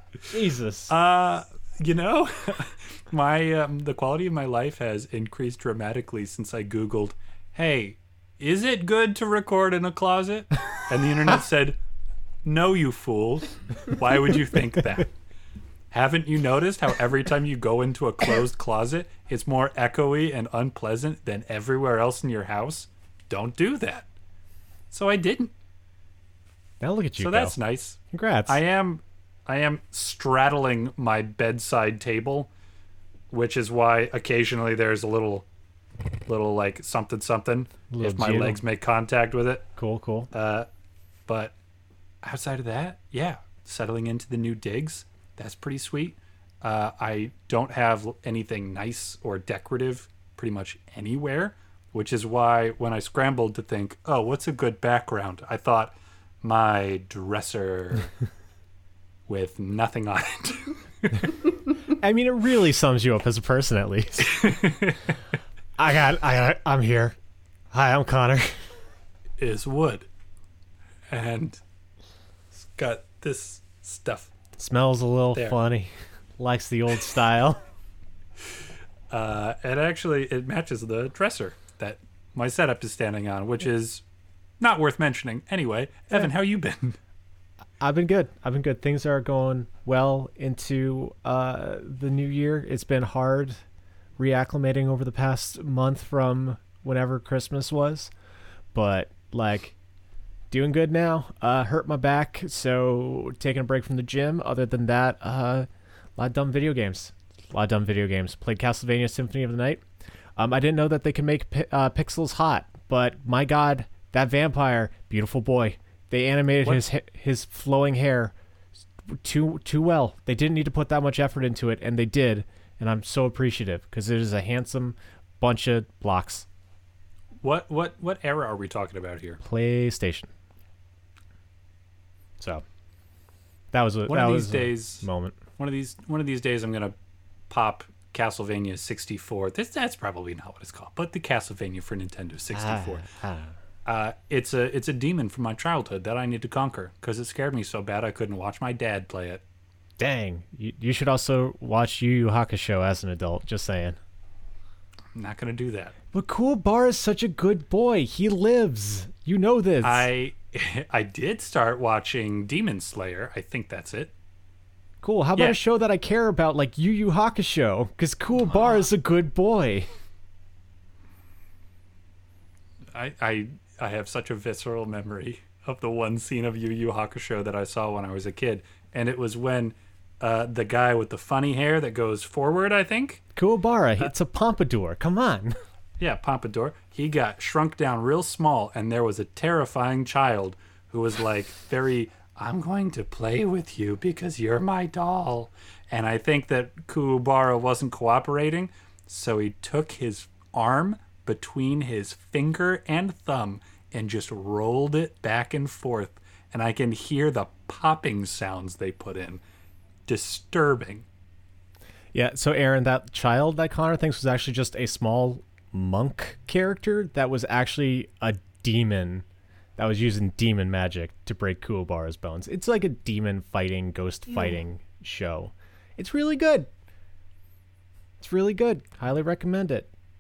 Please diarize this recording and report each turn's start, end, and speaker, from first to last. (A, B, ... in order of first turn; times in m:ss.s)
0:00.3-0:00.9 A
0:00.9-0:11.8 B
0:12.4-0:15.1 B
0:15.9-0:24.1 B
0:24.9-0:25.5 B
0:26.8-0:27.6 A
0:27.2-0:32.5 B
0:28.1-0:28.6 A
0:33.3-0:35.5 B
0:36.3-0:39.7 B
0:37.9-0:38.6 A
0:39.8-0:40.3 A
0:40.3-0:40.7 B
0:41.3-0:41.5 B
0:42.2-0:58.1 B
0:59.3-1:01.3 B
1:01.9-1:04.5 A
1:04.2-1:05.1 B
1:05.8-1:07.2 A
1:07.7-1:08.7 A
1:09.4-1:10.1 B
1:11.1-1:11.6 B
1:12.5-1:14.3 B
1:14.6-1:17.6 A
1:19.1-1:24.0 B
1:24.6-1:27.0 B
1:27.8-1:33.6 A
1:34.2-1:38.1 A
1:38.7-1:39.8 A
1:40.5-1:49.8 A
1:50.4-1:58.3 A
1:59.1-2:06.5 A
2:07.4-2:09.4 B
2:09.4-2:10.3 A
2:12.4-2:12.6 A
2:13.7-2:15.4 A
2:14.1-2:15.1 B
2:15.6-2:17.0 B
2:17.5-2:23.1 B
2:22.5-2:23.6 A
2:23.8-2:29.4 B
2:30.0-2:34.0 A
2:35.1-2:36.0 B
2:36.1-2:40.1 A
2:39.8-2:44.1 B
2:45.0-2:49.9 A
2:48.4-2:48.9 B
2:52.9-3:03.2 B
3:03.4-3:05.6 A
3:06.0-3:29.4 B
3:30.1-3:31.1 B
3:32.1-3:39.2 A
3:39.8-3:46.7 A
3:48.2-3:49.9 A